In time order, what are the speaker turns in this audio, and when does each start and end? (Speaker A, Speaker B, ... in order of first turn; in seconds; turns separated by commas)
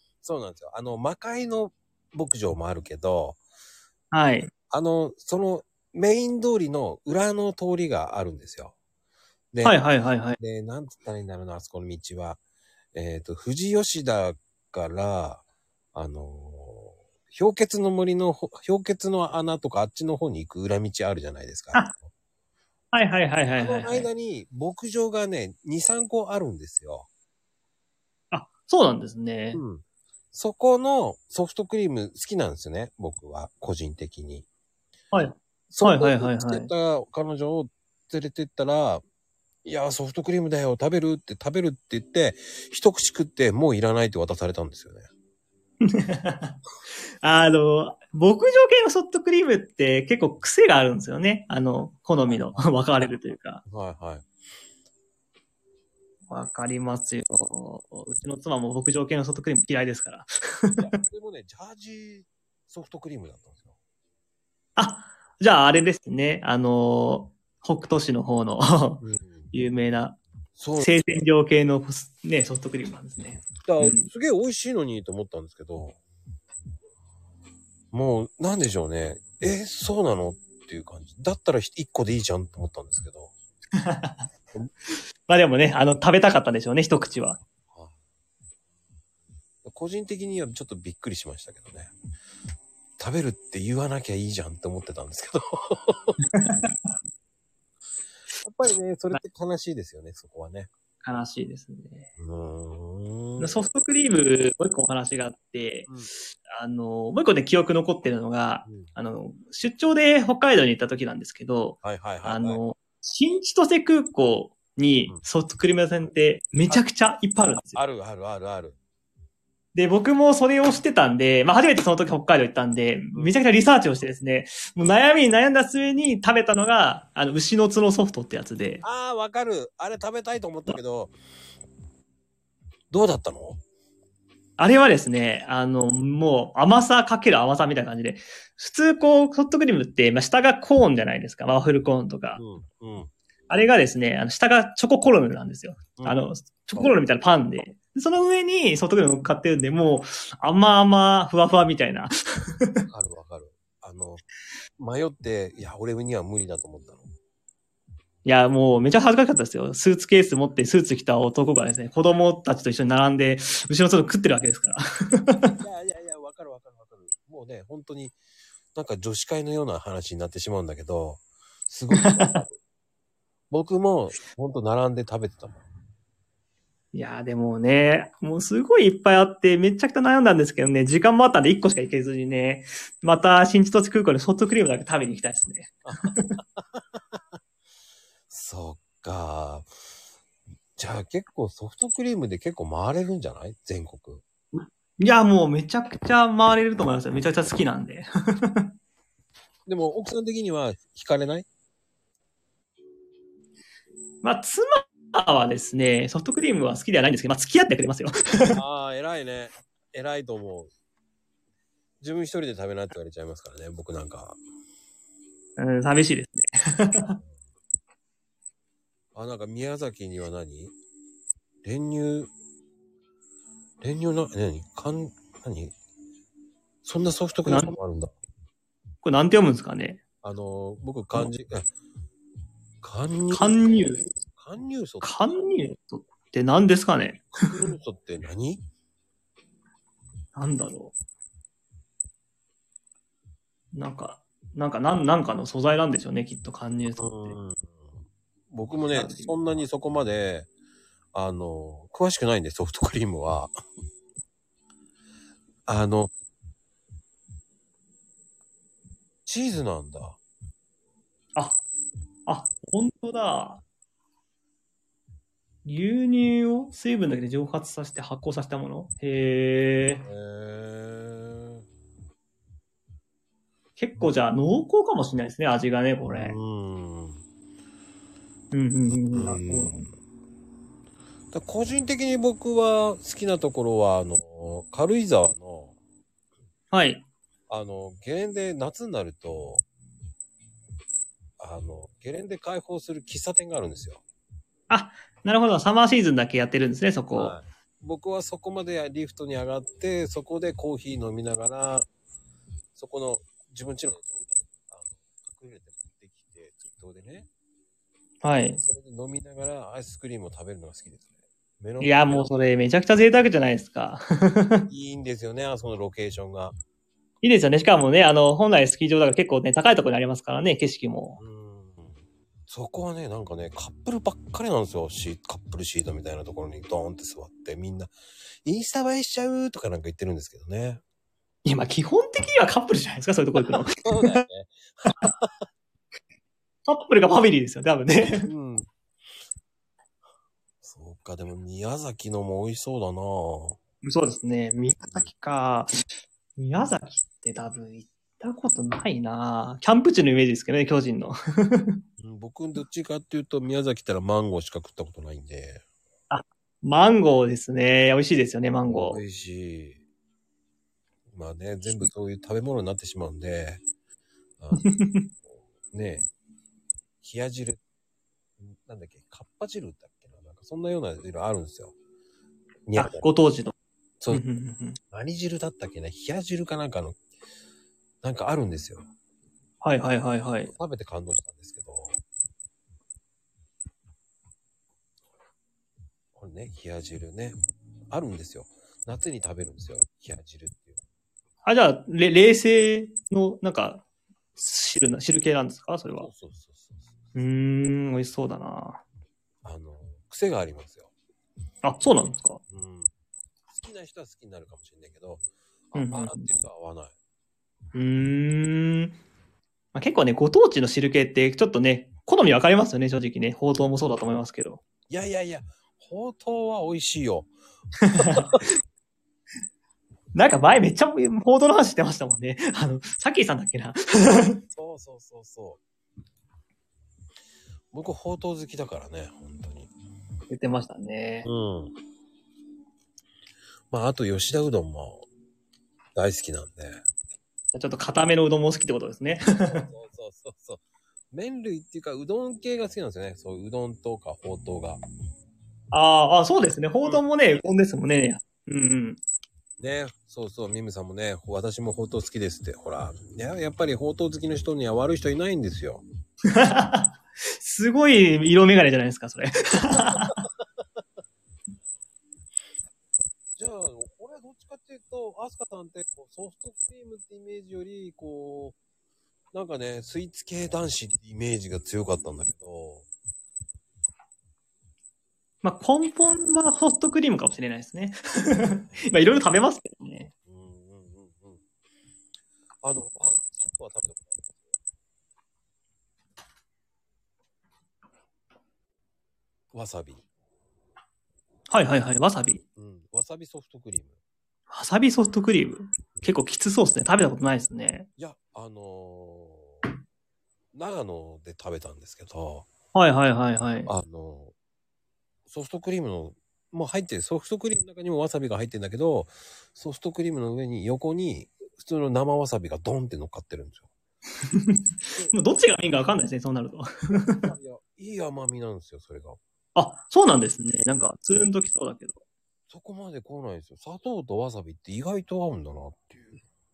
Speaker A: 0.2-3.4, Speaker B: 4.1-4.5, Speaker A: 4.7-8.7, Speaker A: 9.5-9.8, Speaker B: 9.6-10.4, Speaker A: 10.4-12.4, Speaker A: 12.9-22.1, Speaker B: 22.9-24.1, Speaker A: 23.6-27.1, Speaker B: 28.3-29.6, Speaker A: 29.5-34.5, Speaker B: 35.1-36.7, Speaker A: 35.7-39.0, Speaker A: 39.6-45.1, Speaker B: 45.8-46.5, Speaker B: 47.2-53.6, Speaker A: 52.3-52.7, Speaker A: 53.6-54.2, Speaker B: 56.3-60.8, Speaker A: 60.8-63.7, Speaker B: 64.8-70.2, Speaker A: 69.0-69.5, Speaker A: 70.5-71.2, Speaker B: 70.8-74.1, Speaker A: 73.6-76.0, Speaker A: 77.9-83.3, Speaker B: 83.8-84.3, Speaker B: 85.3-87.4, Speaker A: 89.6-91.9, Speaker A: 93.0-96.2, Speaker A: 98.4-100.7, Speaker B: 101.0-102.1, Speaker A: 102.2-103.7, Speaker B: 103.4-105.9, Speaker A: 105.9-106.1, Speaker B: 106.5-117.8, Speaker A: 108.6-108.9, Speaker A: 111.8-112.6, Speaker A: 117.7-118.8, Speaker B: 119.7-128.8, Speaker A: 128.8-131.1, Speaker A: 132.9-133.6, Speaker B: 134.6-142.4, Speaker A: 142.3-143.1, Speaker B: 143.5-152.9, Speaker A: 145.9-146.9, Speaker A: 152.9-154.2, Speaker A: 154.8-157.1, Speaker B: 158.2-165.6, Speaker A: 165.6-168.2, Speaker A: 168.7-172.6, Speaker B: 172.0-172.4, Speaker A: 173.5-175.6, Speaker B: 176.9-186.2, Speaker A: 185.8-187.2, Speaker A: 188.3-189.7, Speaker A: 190.8-194.2, Speaker B: 194.6-198.7, Speaker A: 199.7-201.5, Speaker B: 204.2-208.6, Speaker A: 208.5-210.7, Speaker A: 212.0-214.4, Speaker B: 215.6-217.2, Speaker A: 219.1-220.7, Speaker A: 221.6-222.3, Speaker A: 223.8-225.8, Speaker A: 226.8-228.1, Speaker B: 227.4-227.7, Speaker B: 229.0-230.0, Speaker A: 230.2-231.7, Speaker A: 232.8-235.4, Speaker B: 233.3-234.0, Speaker B: 235.0-237.3, Speaker A: 237.3-238.6, Speaker B: 240.3-240.9, Speaker B: 243.7-247.4, Speaker A: 247.0-250.5, Speaker B: 248.9-249.3, Speaker A: 251.1-253.5, Speaker A: 255.7-256.1, Speaker A: 259.2-260.2, Speaker B: 261.4-261.6, Speaker B: 262.3-263.6, Speaker B: 265.6-270.0, Speaker A: 270.0-271.6, Speaker B: 273.8-276.4, Speaker A: 276.1-277.2, Speaker B: 278.5-279.8, Speaker A: 279.1-279.9, Speaker A: 281.3-285.8, Speaker B: 286.7-287.0, Speaker A: 287.5-289.6, Speaker A: 291.4-294.0, Speaker B: 294.7-297.3, Speaker A: 297.1-301.9, Speaker A: 302.7-307.3, Speaker B: 308.2-308.6, Speaker A: 308.6-312.3, Speaker B: 311.8-314.6, Speaker A: 314.7-316.6, Speaker B: 317.2-321.2, Speaker A: 321.2-327.9, Speaker A: 328.4-330.8, Speaker B: 331.4-334.2, Speaker A: 333.5-335.4, Speaker B: 336.6-338.3, Speaker A: 338.1-338.7, Speaker A: 340.6-343.6, Speaker B: 343.8-345.7, Speaker B: 346.4-351.8, Speaker A: 352.0-355.6, Speaker B: 356.1-359.0, Speaker A: 358.7-359.8, Speaker A: 361.1-363.6, Speaker A: 364.4-364.7, Speaker B: 364.6-365.1, Speaker A: 365.3-366.1, Speaker A: 367.0-367.6, Speaker A: 368.4-371.7, Speaker A: 372.7-373.1, Speaker B: 372.8-373.5, Speaker B: 374.1-374.8, Speaker A: 374.9-377.0, Speaker A: 378.0-378.9, Speaker B: 379.6-380.5, Speaker A: 380.5-382.0, Speaker A: 386.1-387.3, Speaker A: 387.9-390.8, Speaker B: 391.4-393.8, Speaker B: 394.4-396.1, Speaker A: 395.9-396.9, Speaker B: 397.1-398.8, Speaker A: 399.4-400.9, Speaker B: 401.6-402.4, Speaker A: 402.5-402.9, Speaker A: 403.5-406.9, Speaker B: 405.7-406.3, Speaker B: 407.7-409.0, Speaker B: 409.7-414.6, Speaker A: 414.9-417.3, Speaker B: 417.8-418.4, Speaker A: 417.9-418.4, Speaker B: 420.1-424.4, Speaker A: 424.5-425.6, Speaker A: 427.7-429.7, Speaker B: 430.3-431.3, Speaker A: 431.2-431.7, Speaker A: 433.7-435.1, Speaker A: 435.9-436.8, Speaker B: 437.5-439.7, Speaker A: 439.4-444.8, Speaker B: 445.7-449.0, Speaker A: 449.6-455.8, Speaker B: 456.3-460.2, Speaker A: 459.7-460.4, Speaker A: 463.4-468.6, Speaker A: 469.3-472.9, Speaker B: 475.4-480.1, Speaker A: 480.3-481.4, Speaker A: 482.6-484.4, Speaker A: 489.5-490.0, Speaker B: 491.5-492.4, Speaker A: 492.6-494.0, Speaker B: 494.5-497.9, Speaker A: 498.0-499.6, Speaker A: 500.5-502.5, Speaker B: 502.7-503.7, Speaker A: 503.6-504.3, Speaker A: 505.3-513.7, Speaker B: 514.3-517.3, Speaker A: 516.9-519.2, Speaker B: 519.5-522.0, Speaker A: 522.5-526.2